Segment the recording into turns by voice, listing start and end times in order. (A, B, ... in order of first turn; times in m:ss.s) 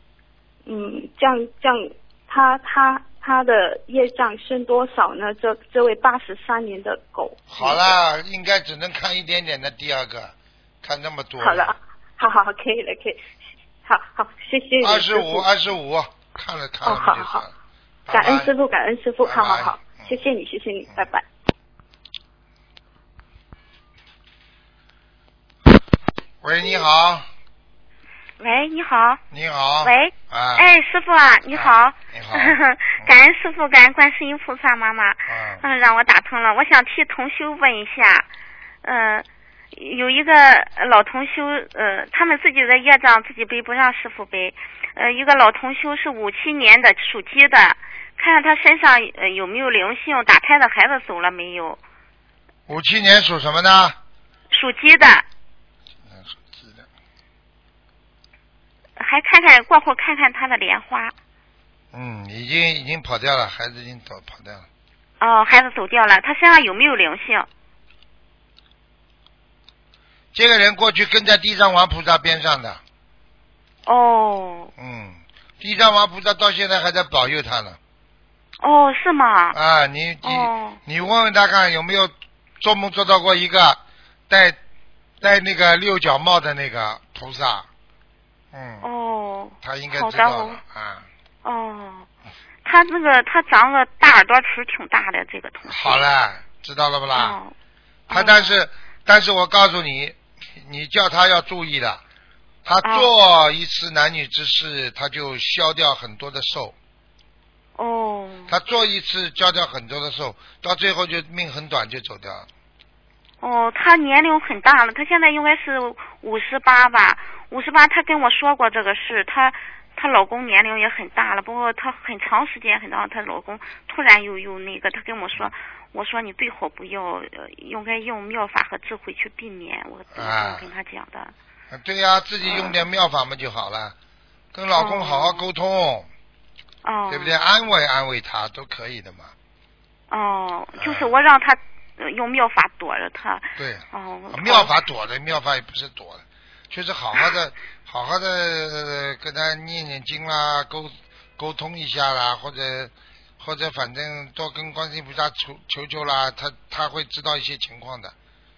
0:00.6-0:07.9 A
0:07.5-0:11.7 B
0:11.4-0:13.2 A
0:13.8-0:15.5 A
0:14.8-0:17.5 B
0:16.8-0:17.4 A
0:18.1-0:18.5 B
0:18.1-0:21.2 A
0:19.2-0:20.2 B
0:26.4-0:27.3 B
0:28.4-0:29.2 C
0:29.3-0:30.7 B
0:29.8-0:38.2 C
0:31.5-0:33.1 B
0:35.3-0:35.6 B
0:38.8-0:51.8 C
0:52.7-0:54.0 B
0:54.5-0:55.2 C
0:56.0-0:56.9 B
0:59.0-1:01.1 C
1:01.9-1:04.6 B
1:05.2-1:07.5 C
1:10.3-1:12.8 B
1:13.8-1:14.7 C
1:14.8-1:17.8 B
1:18.6-1:19.6 C
1:19.5-1:24.6 B
1:20.2-1:20.8 C
1:25.2-1:27.7 B
1:28.5-1:28.8 B
1:28.8-1:30.6 C
1:29.6-1:31.1 B
1:31.4-1:32.1 C
1:32.6-1:36.0 C
1:35.7-1:37.4 B
1:37.1-1:37.5 C
1:38.1-1:38.6 C
1:38.1-1:42.0 B
1:42.6-1:46.7 B
1:42.8-1:43.1 C
1:47.8-1:48.5 C
1:48.5-1:52.5 B
1:53.4-2:11.3 C
2:10.1-2:10.7 B
2:11.7-2:13.9 B
2:12.4-2:12.8 C
2:14.5-2:16.1 B
2:14.7-2:15.5 C
2:16.8-2:17.4 C
2:17.1-2:19.3 B
2:20.1-2:24.7 C
2:20.8-2:21.1 B
2:23.6-2:38.1 B